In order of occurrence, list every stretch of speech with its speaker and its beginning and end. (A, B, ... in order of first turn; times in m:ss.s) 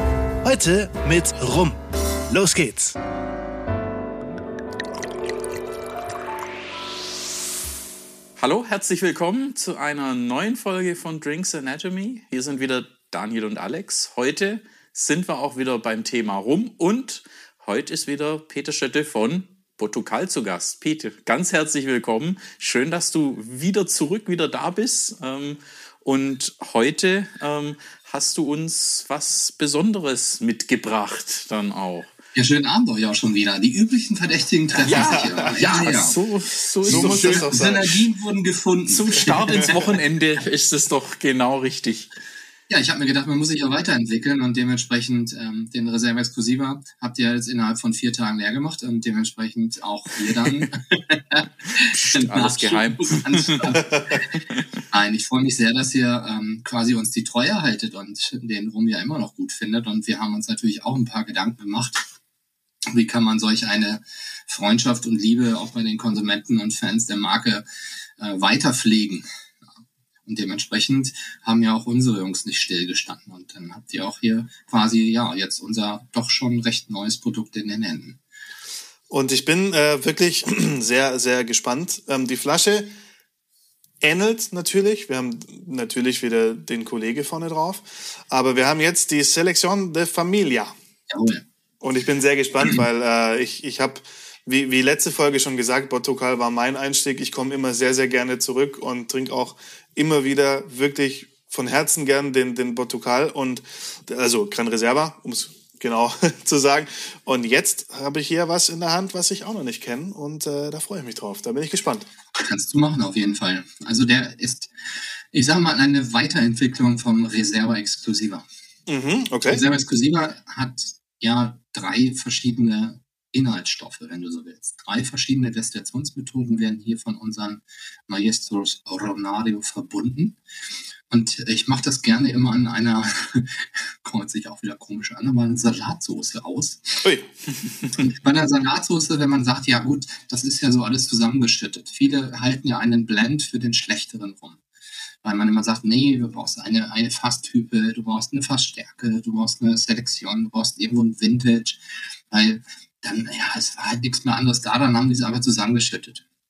0:00.4-0:01.8 A
0:02.3-0:03.0 A
0:08.4-0:32.1 B
0:32.4-0:36.2 C
0:34.8-0:37.5 B
0:34.9-0:35.6 D
0:36.9-0:38.0 D
0:36.9-0:40.0 C
0:38.9-0:42.1 B
0:42.7-0:54.2 C
0:51.8-0:53.8 B
0:54.4-0:54.6 B
0:54.9-1:02.0 C
1:02.9-1:07.6 C
1:08.2-1:09.3 C
1:10.3-1:18.2 C
1:19.1-1:22.9 D
1:24.0-1:30.7 D
1:31.1-1:31.4 C
1:31.8-1:52.1 D
1:52.4-1:54.7 C
1:55.3-1:58.4 C
1:58.9-1:59.6 D
1:59.4-2:10.4 C
2:11.1-2:17.0 C
2:17.9-2:24.6 C
2:25.2-2:31.8 C
2:32.3-2:36.2 C